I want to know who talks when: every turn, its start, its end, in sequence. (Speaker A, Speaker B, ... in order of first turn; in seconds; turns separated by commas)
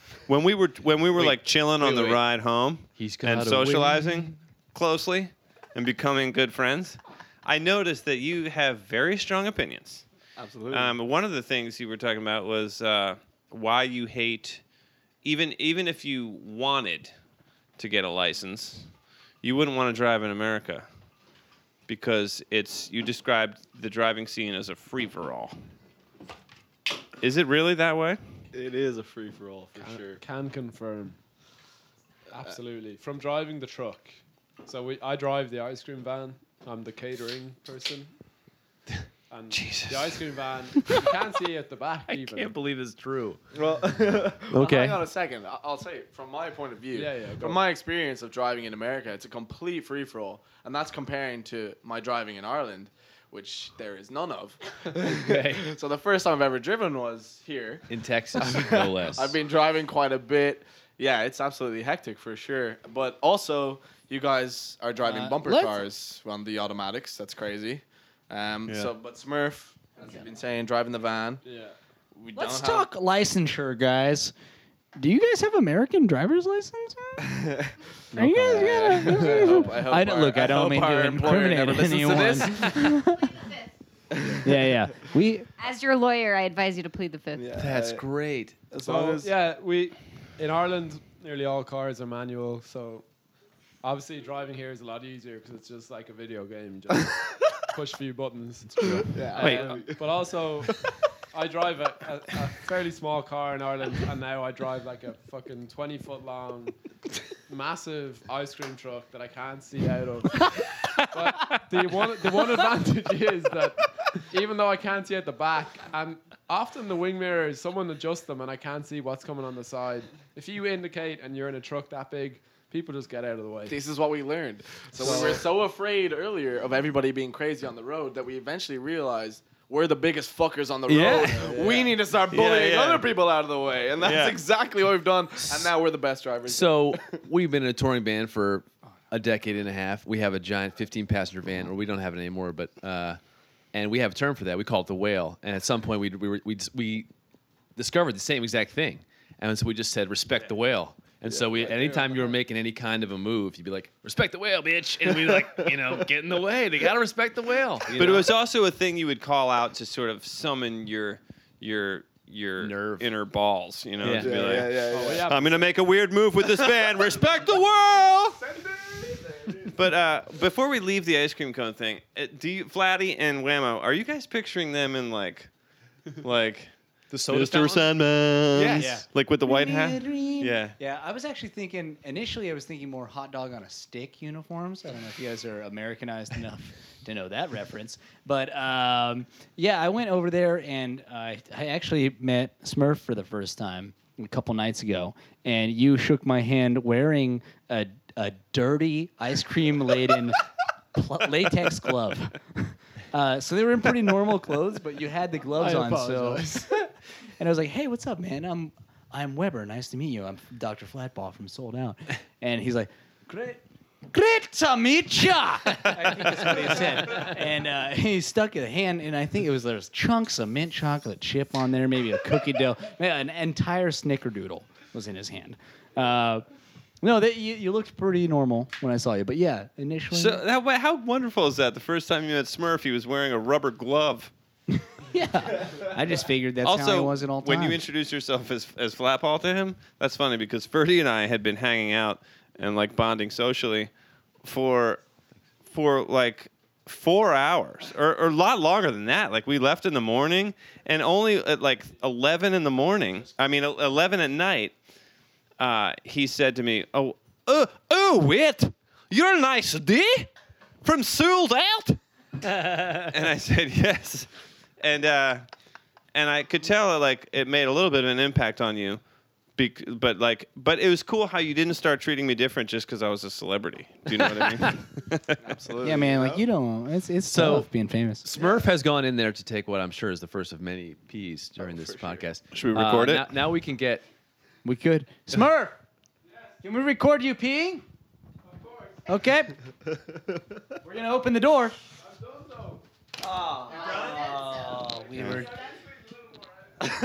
Speaker A: 0.3-10.0, Speaker B: 1.1-2.2, Speaker B: 3.0-4.2, Speaker C: 10.3-10.9, Speaker A: 10.7-14.6, Speaker A: 15.2-17.1, Speaker A: 17.8-18.9, Speaker A: 19.4-20.9, Speaker A: 21.9-25.5, Speaker A: 27.2-28.2, Speaker C: 28.5-30.2, Speaker D: 29.8-31.2, Speaker D: 32.3-38.1, Speaker D: 39.3-42.5, Speaker A: 39.5-40.2, Speaker B: 42.1-43.4, Speaker C: 43.5-71.4, Speaker B: 44.5-45.0, Speaker D: 46.9-47.6, Speaker B: 54.9-55.6, Speaker B: 57.9-59.4, Speaker E: 65.0-65.8, Speaker A: 68.7-68.9, Speaker D: 71.4-71.8, Speaker C: 72.1-72.9, Speaker E: 72.3-74.3, Speaker E: 75.0-77.3, Speaker C: 77.2-82.9, Speaker E: 78.1-83.4, Speaker D: 78.2-79.7, Speaker F: 83.0-83.7, Speaker C: 84.1-84.7, Speaker E: 84.4-85.5, Speaker F: 85.6-87.5, Speaker C: 87.3-88.0, Speaker B: 87.5-88.6, Speaker C: 88.7-89.3, Speaker D: 88.8-93.0, Speaker D: 93.8-106.8, Speaker B: 98.8-99.1, Speaker C: 99.1-100.1, Speaker A: 99.4-99.7, Speaker D: 107.5-123.8, Speaker C: 123.7-137.2, Speaker D: 125.0-125.4, Speaker B: 130.9-131.6, Speaker D: 131.2-132.0, Speaker A: 132.3-133.1, Speaker A: 134.0-134.4, Speaker B: 136.5-143.2, Speaker B: 143.7-147.1, Speaker B: 147.8-158.3, Speaker D: 151.3-152.3, Speaker A: 157.9-168.4, Speaker B: 162.6-163.1, Speaker B: 164.0-164.6, Speaker C: 164.1-165.3, Speaker D: 164.9-165.7, Speaker C: 168.6-169.7, Speaker A: 169.6-175.5, Speaker A: 176.2-176.7, Speaker B: 177.1-177.9, Speaker A: 177.3-180.7, Speaker B: 178.5-178.9, Speaker E: 178.7-200.4, Speaker E: 200.9-226.4, Speaker D: 205.5-206.7, Speaker E: 227.0-230.4, Speaker A: 230.1-234.3, Speaker E: 234.8-237.8, Speaker A: 236.6-243.9, Speaker A: 244.4-245.0, Speaker A: 245.7-254.7, Speaker A: 255.6-260.3, Speaker A: 260.8-262.0, Speaker B: 262.4-263.1, Speaker A: 263.1-264.3, Speaker A: 264.8-265.4, Speaker A: 266.1-269.0, Speaker A: 269.6-275.4, Speaker C: 275.4-276.4, Speaker E: 275.8-278.2, Speaker B: 277.3-277.7, Speaker B: 278.2-284.0, Speaker C: 278.4-278.6, Speaker C: 281.6-282.2, Speaker A: 282.5-283.3, Speaker E: 284.6-285.8, Speaker E: 286.6-287.8, Speaker E: 289.1-289.6, Speaker E: 290.8-291.8, Speaker D: 292.2-292.8, Speaker E: 293.2-295.6, Speaker C: 293.4-293.9, Speaker F: 293.7-294.9, Speaker A: 295.1-295.4